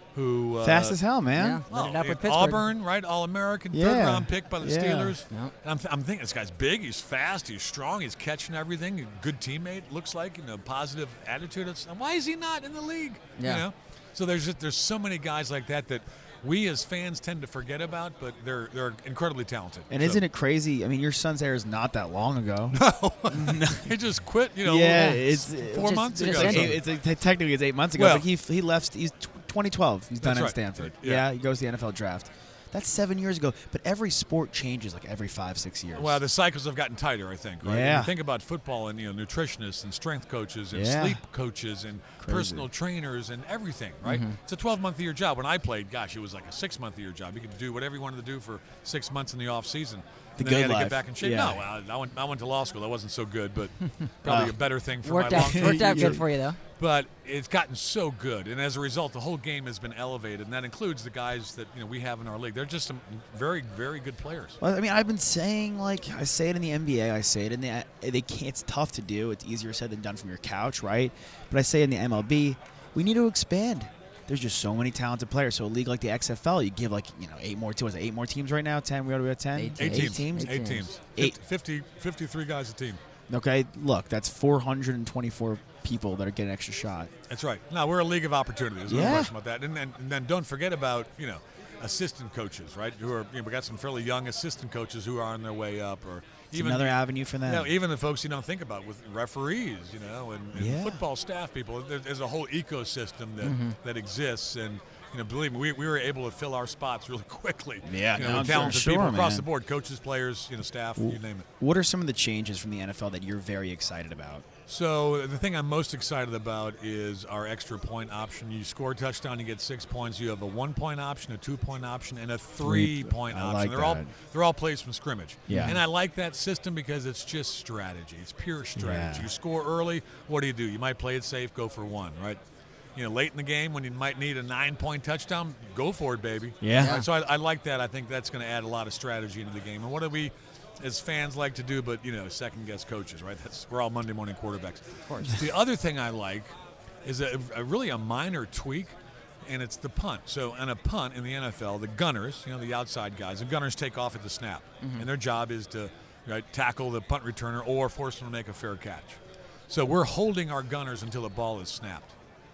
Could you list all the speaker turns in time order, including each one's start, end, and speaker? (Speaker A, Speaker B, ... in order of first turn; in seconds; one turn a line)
Speaker A: 0.1-1.0
Speaker B: 0.6-1.6
Speaker C: 1.3-2.6
Speaker A: 1.7-20.2
Speaker B: 3.7-5.2
Speaker C: 13.4-13.6
Speaker B: 19.9-23.9
Speaker A: 22.7-26.8
Speaker B: 24.6-36.2
Speaker C: 25.7-26.7
Speaker A: 28.0-28.2
Speaker A: 30.2-31.2
Speaker A: 35.9-56.2
Speaker B: 37.6-38.1
Speaker B: 40.7-41.2
Speaker B: 42.2-42.7
Speaker C: 44.0-44.4
Speaker B: 50.4-51.6
Speaker B: 54.2-54.5
Speaker C: 55.0-56.6
Speaker B: 55.3-56.2
Speaker A: 56.8-64.6
Speaker B: 64.6-81.4
Speaker C: 79.5-80.9
Speaker A: 79.8-83.0
Speaker B: 83.3-87.1
Speaker A: 87.3-111.5
Speaker B: 88.9-89.3
Speaker B: 96.5-97.7
Speaker B: 100.5-101.0
Speaker C: 103.4-103.8
Speaker B: 107.8-109.5
Speaker C: 108.2-108.7
Speaker B: 111.0-114.5
Speaker A: 114.7-132.4
Speaker B: 122.6-124.1
Speaker B: 125.5-125.8
Speaker B: 128.7-129.3
Speaker A: 132.9-146.5
Speaker B: 136.6-137.0
Speaker C: 136.7-137.1
Speaker C: 145.1-145.3
Speaker A: 147.0-162.1
Speaker C: 154.8-155.1